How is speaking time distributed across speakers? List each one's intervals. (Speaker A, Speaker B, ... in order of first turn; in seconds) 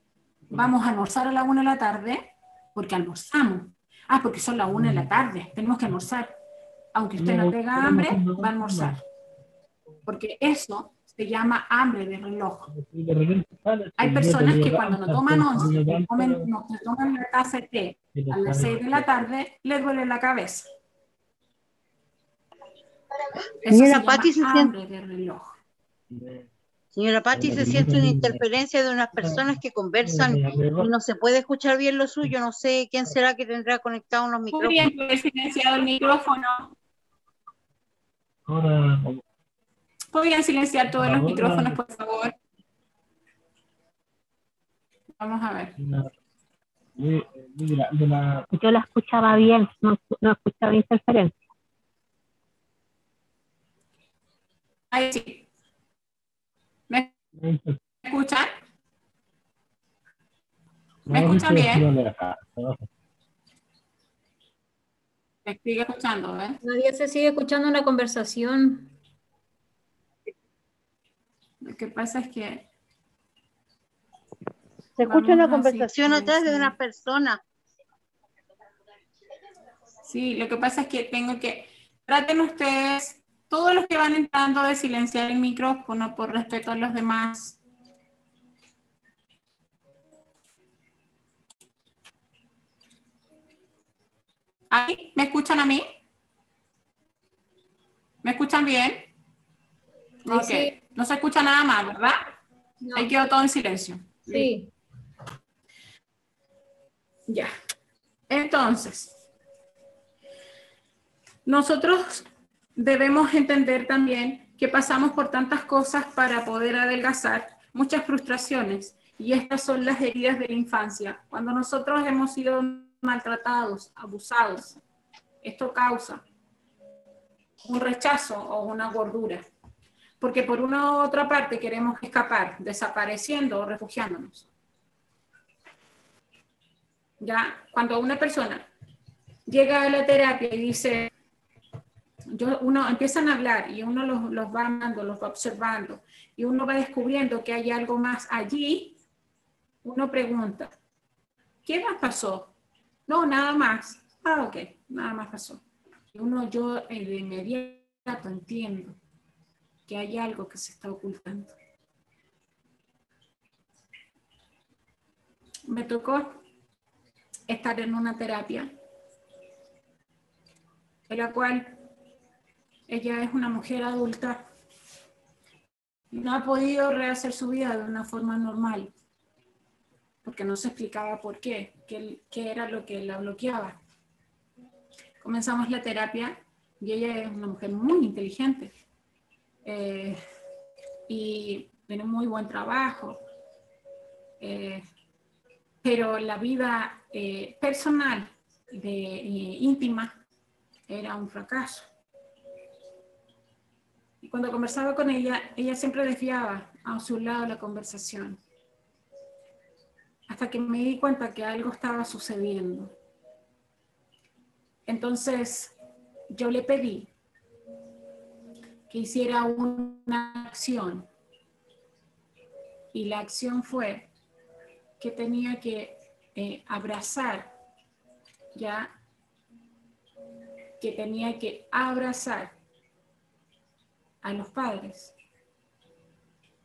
Speaker A: 0.5-6.3, 6.9-9.0, 10.1-12.7, 14.0-20.7, 23.6-25.5, 34.5-36.8, 40.1-42.3, 45.2-45.8, 54.9-55.5, 58.0-58.5, 61.1-61.9, 65.4-66.6, 71.6-72.7, 75.0-76.8, 80.0-87.6, 94.7-95.9, 98.2-99.1, 100.2-102.2, 102.9-104.5, 108.3-109.2, 111.5-124.8, 125.4-126.2, 127.6-129.4, 130.2-134.5, 137.2-138.7, 139.5-141.1, 142.3-149.0, 149.8-150.7, 151.6-152.5, 153.1-155.6, 156.1-159.0, 159.9-161.6, 165.7-166.4, 167.5-168.7, 171.1-171.8, 172.9-174.4, 176.1-178.9, 180.2-183.8, 185.2-188.7, 189.6-190.2, 191.1-193.2, 194.4-194.8, 195.8-200.1, 200.9-201.9, 204.2-208.4, 210.3-212.9, 214.9-215.7, 216.3-217.1, 218.9-221.1, 222.9-224.1, 225.0-227.5, 228.5-228.9, 230.8-232.6, 234.2-235.1
Speaker B: 4.8-5.1, 7.2-9.0, 12.7-16.5, 18.1-19.1, 26.1-26.5, 27.3-28.4, 29.2-30.9, 38.5-39.2, 40.9-41.8, 45.8-46.1, 47.0-48.5, 57.3-57.8, 61.1-62.8
Speaker C: 23.3-24.7, 26.9-34.9, 75.0-77.4
Speaker D: 48.5-51.3
Speaker E: 66.6-68.9, 100.2-100.7, 102.8-103.1, 104.3-104.7